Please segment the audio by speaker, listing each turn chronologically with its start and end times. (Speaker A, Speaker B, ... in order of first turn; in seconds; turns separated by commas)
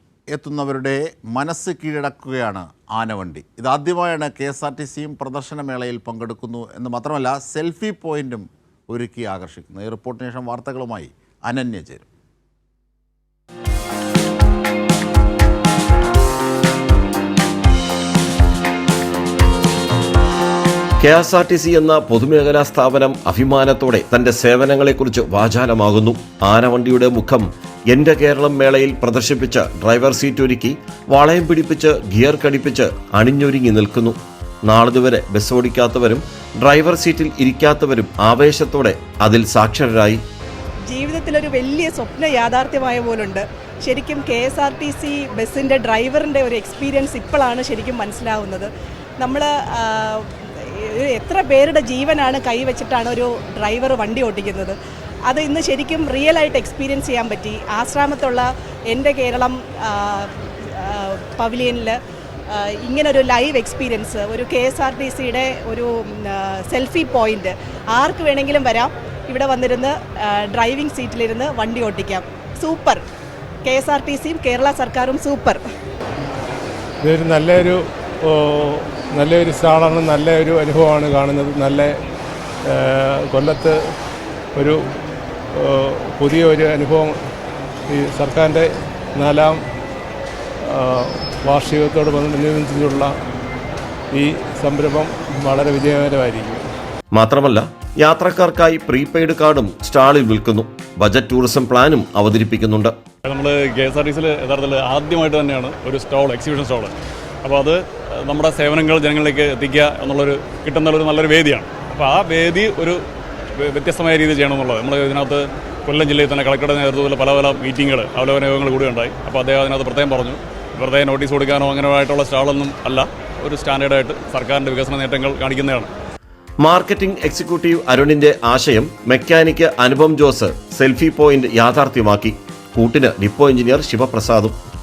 Speaker A: 0.3-12.1, Speaker B: 21.0-34.2, Speaker B: 34.7-40.2, Speaker C: 40.9-48.7, Speaker C: 49.2-54.8, Speaker C: 55.3-62.0, Speaker C: 62.5-73.0, Speaker C: 73.7-75.6, Speaker D: 77.0-82.0, Speaker D: 82.7-83.9, Speaker D: 84.5-84.8, Speaker D: 85.5-87.2, Speaker D: 87.9-89.6, Speaker D: 90.6-93.1, Speaker D: 94.1-96.7, Speaker B: 97.1-102.9, Speaker E: 103.2-106.9, Speaker E: 107.4-113.0, Speaker E: 113.6-125.9, Speaker B: 126.6-134.6